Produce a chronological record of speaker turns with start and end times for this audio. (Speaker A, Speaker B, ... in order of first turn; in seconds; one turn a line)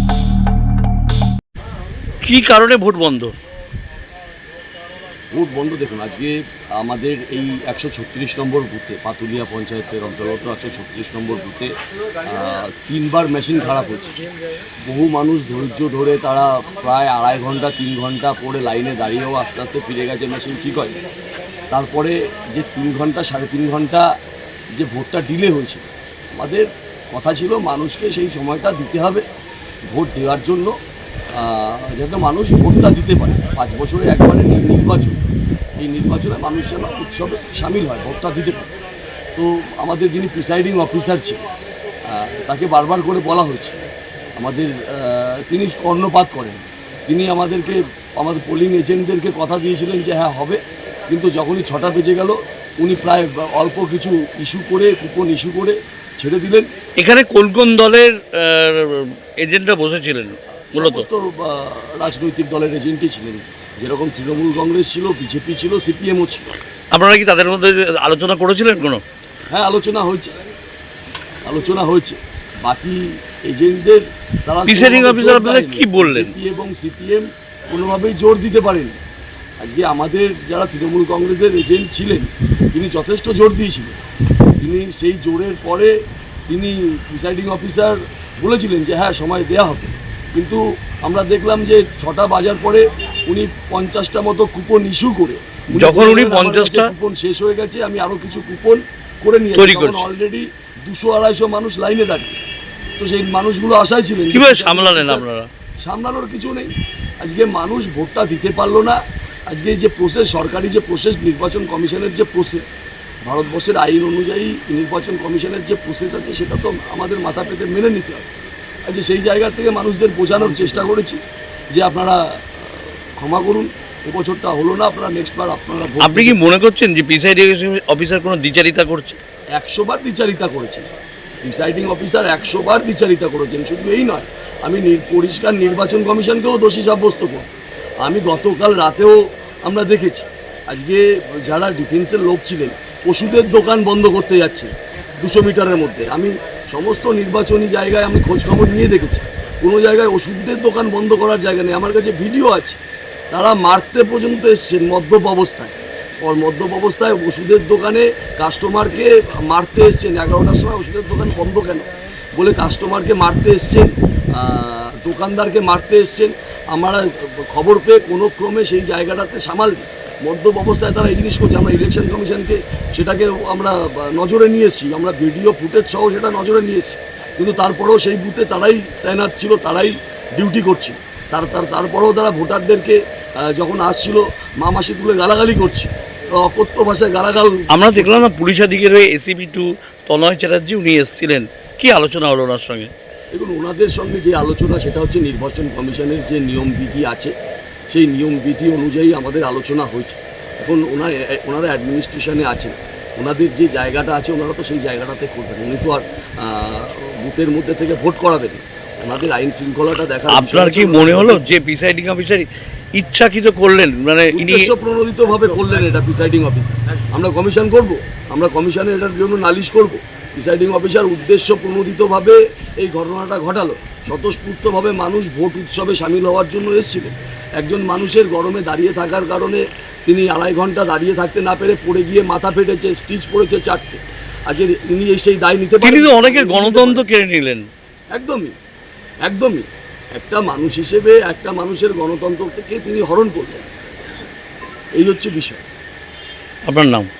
Speaker A: 2.2-3.3
Speaker B: 5.3-11.7
Speaker B: 12.2-14.2
Speaker B: 14.8-21.0
Speaker B: 21.7-24.1
Speaker B: 24.8-29.2
Speaker B: 29.9-30.7
Speaker B: 31.4-35.2
Speaker B: 35.8-38.7
Speaker B: 39.3-41.4
Speaker B: 42.1-43.8
Speaker B: 44.4-56.7
Speaker A: 57.0-61.0
Speaker B: 60.7-66.5
Speaker A: 66.9-69.0
Speaker B: 69.5-70.3
Speaker B: 71.4-79.0
Speaker A: 74.7-76.3
Speaker B: 79.6-84.0
Speaker B: 84.6-85.9
Speaker B: 86.5-102.4
Speaker A: 95.7-96.9
Speaker A: 99.5-100.0
Speaker B: 103.0-105.2
Speaker A: 104.3-105.5
Speaker B: 105.8-112.7
Speaker B: 113.2-118.3
Speaker B: 118.9-121.2
Speaker A: 120.3-120.9
Speaker B: 121.7-126.4
Speaker A: 126.0-129.2
Speaker B: 129.6-130.9
Speaker B: 131.4-137.5
Speaker B: 138.0-152.8
Speaker B: 153.3-188.2
Speaker A: 187.7-192.9
Speaker B: 193.3-197.3
Speaker B: 197.9-211.5
Speaker A: 210.3-214.7
Speaker B: 214.3-237.0
Speaker A: 235.8-237.7
Speaker B: 238.1-238.5
Speaker B: 239.2-243.7
Speaker B: 245.0-245.6
Speaker A: 246.7-247.1